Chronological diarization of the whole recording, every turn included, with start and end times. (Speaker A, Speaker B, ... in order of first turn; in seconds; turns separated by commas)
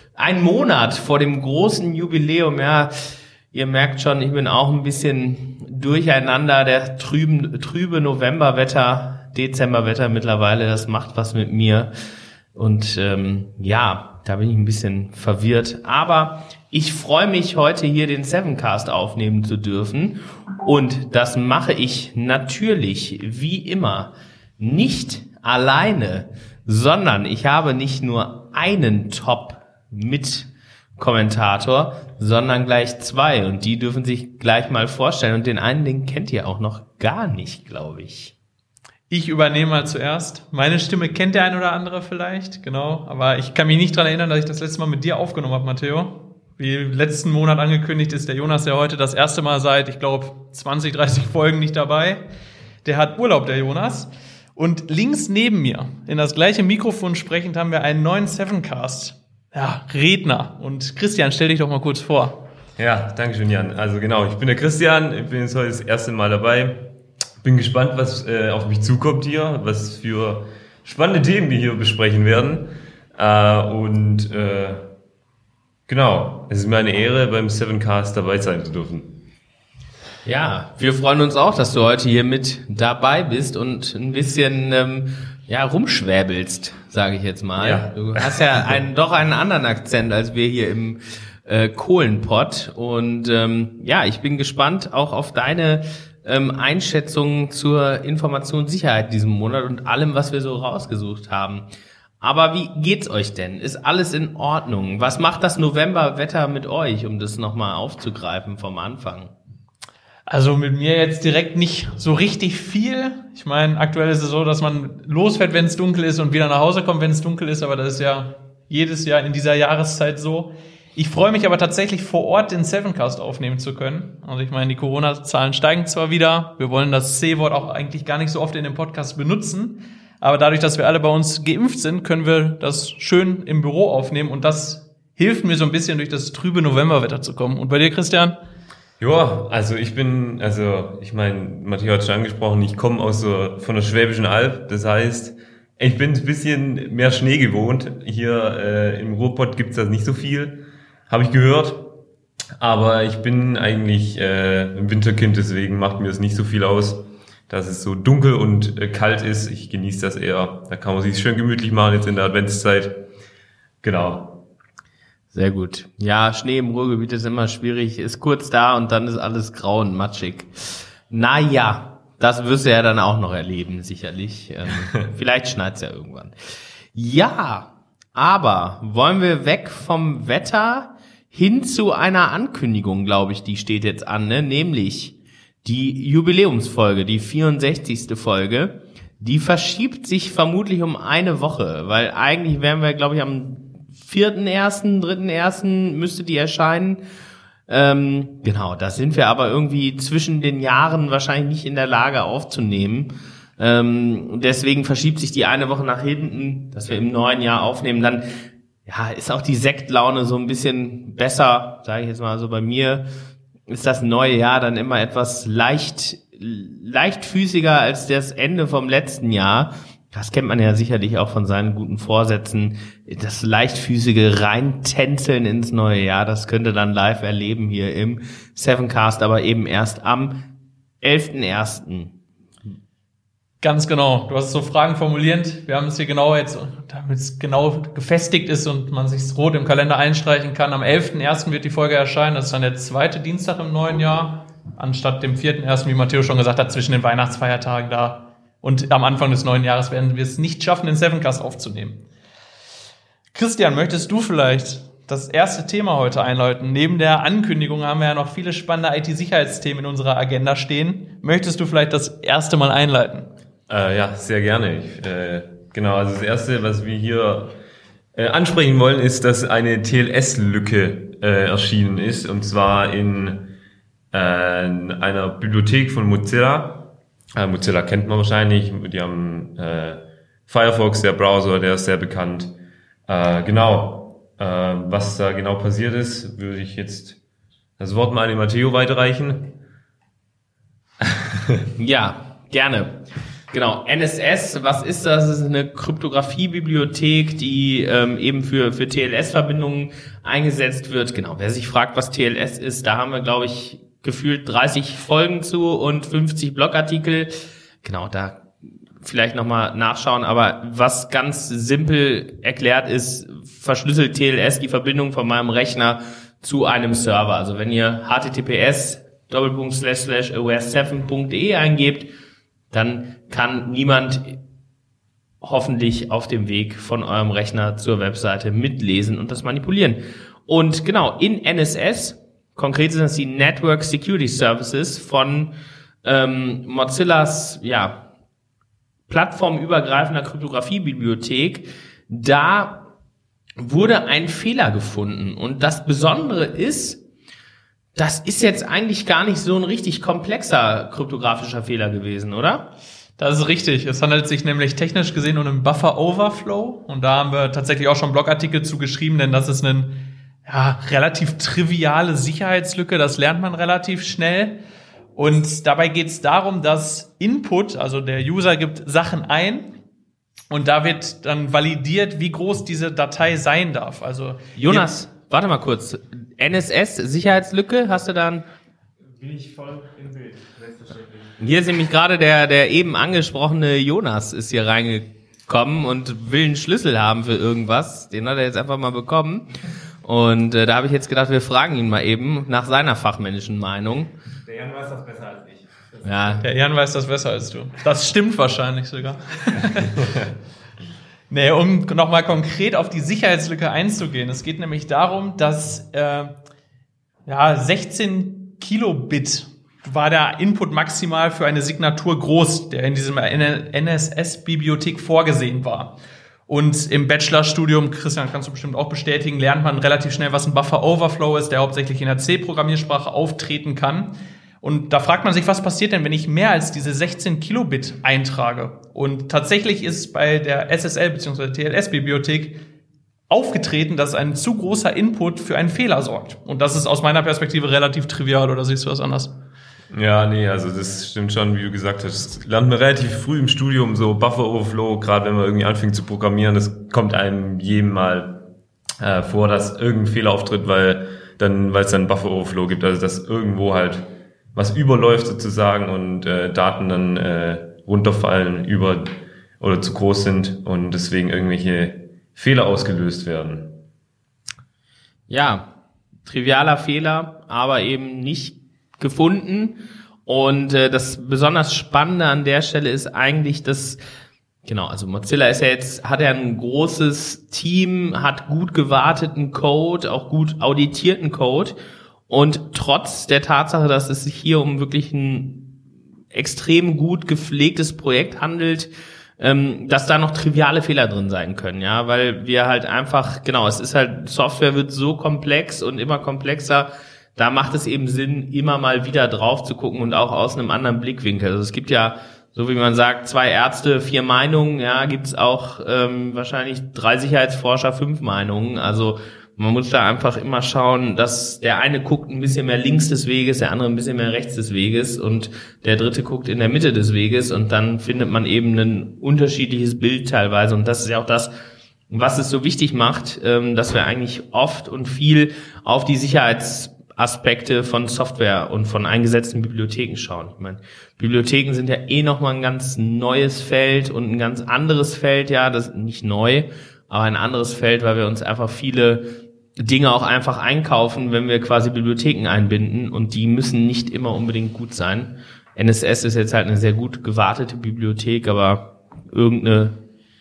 Speaker A: 0.2-11.9, Speaker A: 12.6-38.3, Speaker B: 39.1-52.2, Speaker B: 52.8-62.4, Speaker C: 62.8-66.9, Speaker C: 67.4-74.9, Speaker C: 75.9-79.2, Speaker A: 80.2-101.7, Speaker C: 87.6-88.4, Speaker A: 102.2-109.3, Speaker B: 110.3-138.4, Speaker C: 139.0-151.9, Speaker C: 152.6-163.1, Speaker C: 163.8-164.4, Speaker A: 165.3-176.3, Speaker A: 176.9-197.0, Speaker A: 197.7-208.2, Speaker A: 208.9-213.1, Speaker A: 213.7-230.4, Speaker A: 231.0-232.1, Speaker B: 233.6-252.0, Speaker B: 253.3-263.3, Speaker C: 263.7-267.6, Speaker C: 268.1-273.5, Speaker C: 274.1-282.6, Speaker C: 283.1-287.2, Speaker C: 287.8-289.5, Speaker C: 291.0-291.7, Speaker A: 291.8-307.3, Speaker A: 307.8-308.5, Speaker A: 309.0-322.1, Speaker A: 322.7-324.4, Speaker A: 325.4-335.5, Speaker A: 336.0-338.0, Speaker A: 339.1-342.9, Speaker A: 343.6-347.0, Speaker A: 348.0-352.7, Speaker B: 353.2-364.6, Speaker B: 365.2-369.7, Speaker B: 370.5-374.9, Speaker A: 374.6-378.4, Speaker D: 379.2-381.3, Speaker A: 381.4-389.5, Speaker A: 390.0-394.1, Speaker D: 394.4-396.4, Speaker A: 396.0-396.4, Speaker B: 396.4-400.1, Speaker B: 401.3-406.3, Speaker B: 407.3-416.0, Speaker B: 416.5-432.6, Speaker B: 433.3-439.4, Speaker C: 439.9-448.4, Speaker C: 449.0-463.8, Speaker A: 465.3-465.7, Speaker A: 466.3-474.0, Speaker A: 474.6-481.8, Speaker A: 482.3-485.7, Speaker A: 486.3-521.5, Speaker A: 522.1-539.2, Speaker A: 539.8-550.0